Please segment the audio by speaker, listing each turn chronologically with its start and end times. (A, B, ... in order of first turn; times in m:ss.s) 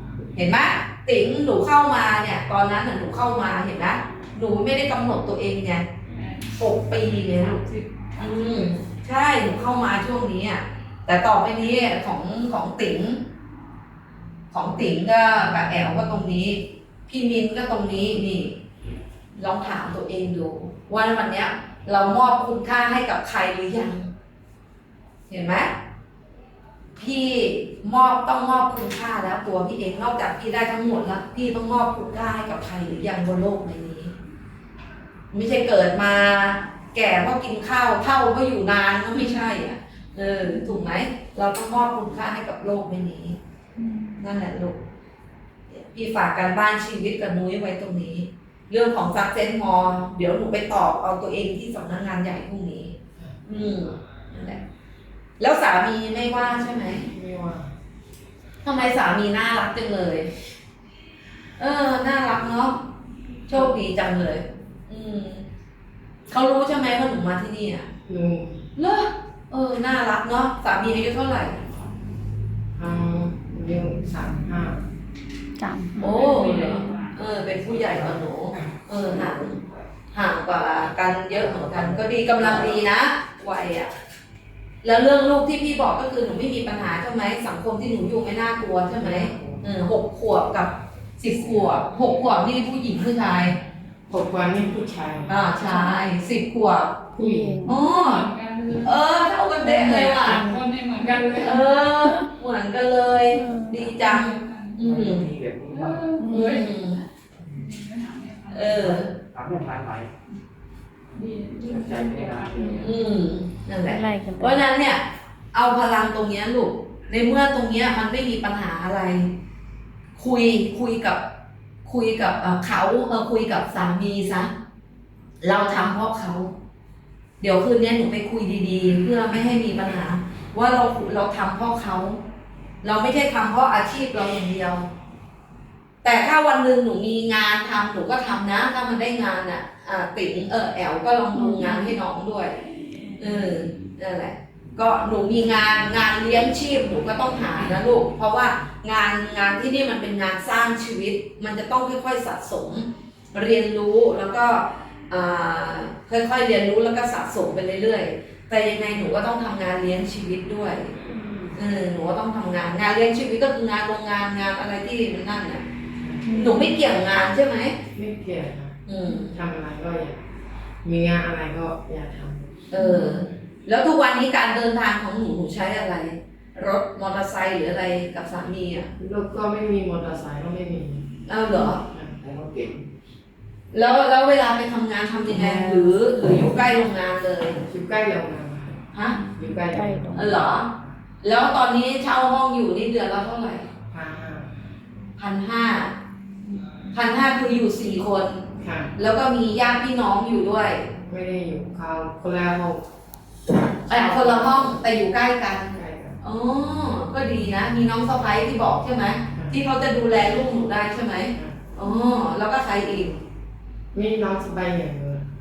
0:00.3-0:05.8 A
0:06.1-0:08.8 B
0:06.6-0:07.6 A
0:08.2-0:13.2 A
0:14.5-0:18.6 A
0:19.4-0:24.1 A
0:25.3-0:25.7 A
0:27.0-0:34.1 A
0:35.3-0:43.4 A
0:43.8-0:44.2 C
0:44.2-0:44.8 A
0:45.7-0:54.6 A
0:55.4-0:57.1 A
0:57.1-0:57.7 D
0:58.6-1:00.3 A
1:01.6-1:02.9 A
1:03.5-1:05.4 A
1:06.3-1:07.9 A
1:08.0-1:08.6 D
1:08.8-1:11.7 A
1:12.7-1:14.8 D
1:15.6-1:16.2 C
1:16.0-1:17.2 B
1:16.0-1:19.6 A
1:20.1-1:23.9 A
1:24.8-1:33.6 A
1:29.0-1:29.6 D
1:34.1-1:35.5 D
1:35.3-1:37.1 A
1:37.2-1:37.6 D
1:37.2-1:37.8 C
1:37.6-1:38.3 A
1:37.7-1:39.0 B
1:38.8-1:40.4 A
1:39.6-1:40.6 C
1:39.6-1:41.7 B
1:41.0-1:45.3 A
1:43.3-1:43.9 C
1:43.8-1:45.1 B
1:44.8-1:46.2 E
1:45.7-1:46.7 B
1:46.2-1:46.7 C
1:46.3-1:47.0 A
1:47.4-1:47.7 E
1:47.6-1:49.0 B
1:48.5-1:49.1 A
1:48.7-1:50.1 E
1:51.1-1:53.0 B
1:51.6-1:53.0 E
1:52.6-1:54.6 C
1:52.8-1:59.3 A
2:00.2-2:01.2 A
2:01.8-2:04.5 A
2:05.4-2:06.5 A
2:07.4-2:12.2 A
2:12.8-2:14.9 A
2:16.0-2:22.6 A
2:21.3-2:22.0 C
2:23.2-2:41.0 A
2:41.5-2:45.6 A
2:46.0-2:46.3 D
2:46.2-2:46.8 C
2:46.3-2:47.8 A
2:47.9-2:50.2 D
2:48.9-2:49.4 A
2:50.8-2:52.6 D
2:52.7-2:58.9 A
2:52.7-2:53.2 C
2:59.0-3:01.2 D
3:01.3-3:01.8 A
3:01.8-3:02.1 D
3:02.2-3:02.8 E
3:03.7-3:07.6 A
3:07.6-3:08.8 D
3:09.1-3:10.4 C
3:09.3-3:11.0 D
3:10.1-3:10.7 A
3:11.2-3:13.7 A
3:13.9-3:14.6 D
3:15.2-3:15.9 A
3:16.9-3:20.9 A
3:18.6-3:18.9 D
3:21.1-3:22.8 D
3:23.9-3:24.7 D
3:23.9-3:33.2 A
3:25.7-3:26.2 D
3:29.3-3:29.6 D
3:31.3-3:31.6 D
3:31.8-3:32.1 C
3:33.9-3:35.3 D